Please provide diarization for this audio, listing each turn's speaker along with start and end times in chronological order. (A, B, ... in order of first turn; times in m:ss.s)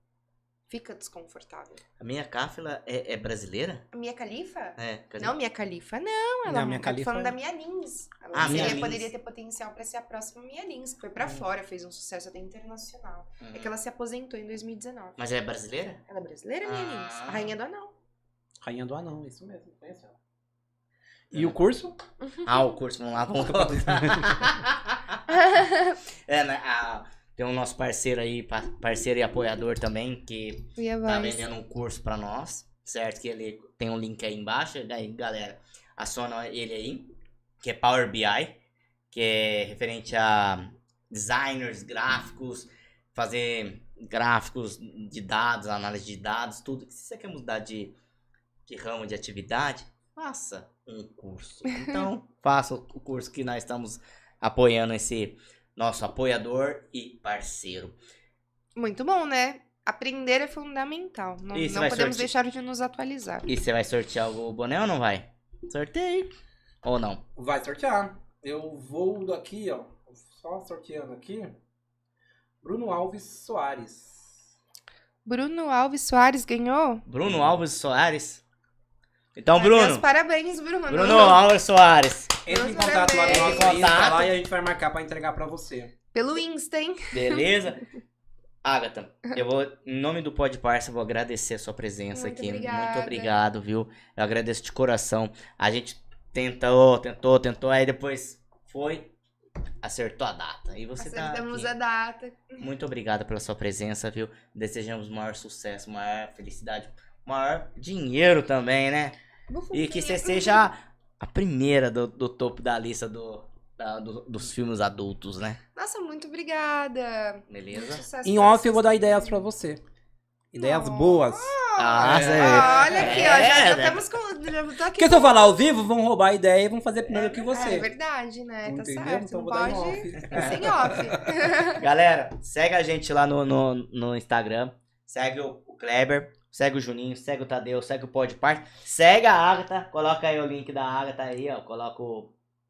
0:00.7-0:01.8 A
0:02.0-0:03.9 B
0:03.9-0:15.2 A
0:04.8-0:05.3 B
0:06.4-0:07.4 C
0:08.3-0:09.1 B
0:08.4-0:08.9 C
0:13.4-0:13.7 B
0:15.2-0:16.0 B
0:16.1-0:17.9 A
0:16.6-0:17.6 B
0:18.6-0:20.1 C
0:21.3-0:22.0 C
0:21.3-0:21.6 B
0:22.2-0:22.5 A
0:22.4-0:25.2 B
0:23.3-0:24.3 C
0:25.3-0:26.0 A
0:26.2-0:38.6 B
0:30.8-0:31.4 A
0:39.1-0:47.9 B
0:48.7-0:58.0 B
0:58.8-1:03.6 A
1:01.5-1:02.3 B
1:03.5-1:07.2 B
1:07.4-1:11.6 C
1:12.6-1:14.4 C
1:15.2-1:17.0 A
1:17.0-1:18.4 B
1:19.3-1:20.0 B
1:19.5-1:21.4 A
1:20.9-1:22.3 B
1:22.4-1:25.9 C
1:22.4-1:24.1 A
1:23.2-1:24.3 B
1:26.1-1:27.5 A
1:27.1-1:27.8 B
1:28.6-1:39.1 B
1:32.1-1:33.3 A
1:39.8-1:41.7 B
1:41.0-1:42.7 A
1:42.6-1:49.2 B
1:49.5-1:50.7 A
1:49.7-1:55.6 B
1:55.8-1:59.5 A
1:57.5-1:58.0 B
1:58.2-1:59.8 C
2:00.5-2:03.3 C
2:00.6-2:05.7 A
2:01.8-2:04.1 B
2:04.9-2:07.9 C
2:07.1-2:07.4 B
2:07.3-2:11.8 A
2:08.6-2:11.2 C
2:10.3-2:10.7 B
2:11.6-2:22.3 B